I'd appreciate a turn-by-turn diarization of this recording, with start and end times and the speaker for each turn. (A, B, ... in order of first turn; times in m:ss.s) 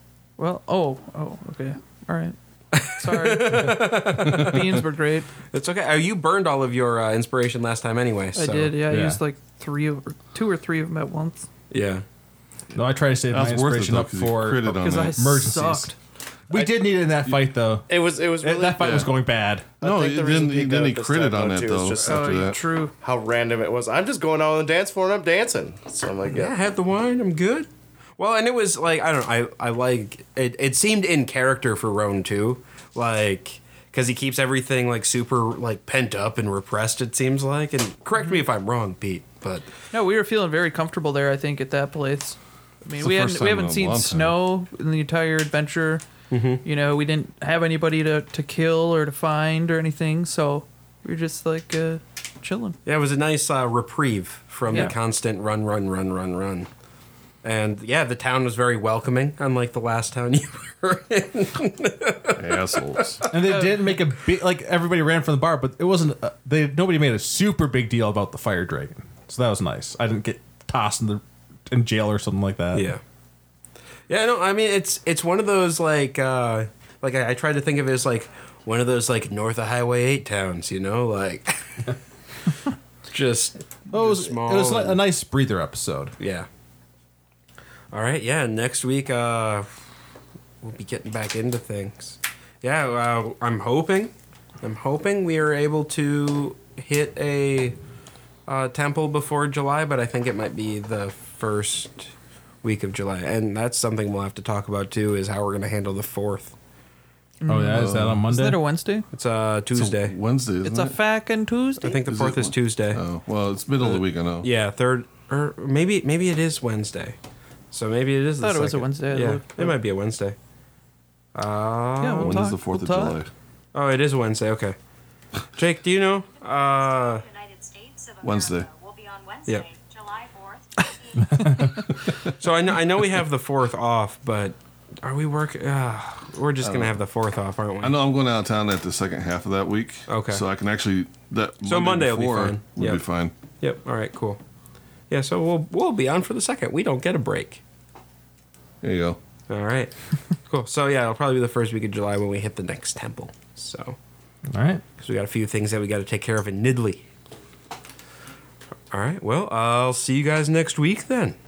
0:00.4-0:05.3 A
0:02.7-0:04.6 B
0:05.5-0:09.2 B
0:08.3-0:11.5 A
0:11.7-0:12.0 B
0:12.7-0:15.9 C
0:13.3-0:15.2 D
0:14.7-0:15.9 A
0:16.5-0:19.8 C
0:17.9-0:19.1 E
0:19.8-0:22.4 E
0:19.8-0:22.6 D
0:22.0-0:22.9 A
0:23.0-0:26.5 E
0:26.2-0:39.7 B
0:39.9-0:46.1 A
0:42.9-0:44.4 D
0:46.3-0:46.6 B
0:46.6-0:52.8 A
0:52.8-0:56.7 B
0:54.7-0:54.9 A
0:57.4-1:03.2 B
1:02.4-1:03.2 D
1:03.3-1:12.9 C
1:03.4-1:03.8 A
1:12.7-1:13.0 B
1:14.1-1:21.9 B
1:23.1-1:25.0 B
1:23.9-1:26.1 C
1:26.2-1:26.5 B
1:27.9-1:29.7 B
1:30.6-1:37.8 B
1:38.5-1:46.6 B
1:47.4-1:49.1 A
1:47.4-1:48.6 C
1:47.7-1:48.2 D
1:49.1-1:50.1 B
1:49.7-1:51.0 D
1:50.6-1:52.0 A
1:51.8-1:53.0 B
1:52.0-1:54.5 D
1:53.8-1:57.2 B
1:57.7-2:00.4 B
1:58.4-1:59.8 A
2:01.3-2:02.4 B
2:02.0-2:03.2 A
2:02.1-2:03.3 D
2:03.7-2:04.8 B
2:05.5-2:07.3 B
2:07.2-2:11.2 F
2:08.2-2:08.7 D
2:11.3-2:11.6 C
2:12.1-2:18.0 B
2:16.6-2:17.0 D
2:17.8-2:23.3 D
2:20.1-2:20.4 B
2:21.6-2:23.0 B
2:23.6-2:24.4 B
2:25.1-2:27.6 B
2:28.8-2:29.2 D
2:29.5-2:29.9 B
2:30.4-2:34.0 B
2:34.5-2:34.8 C
2:35.0-2:37.0 B
2:38.9-2:41.4 B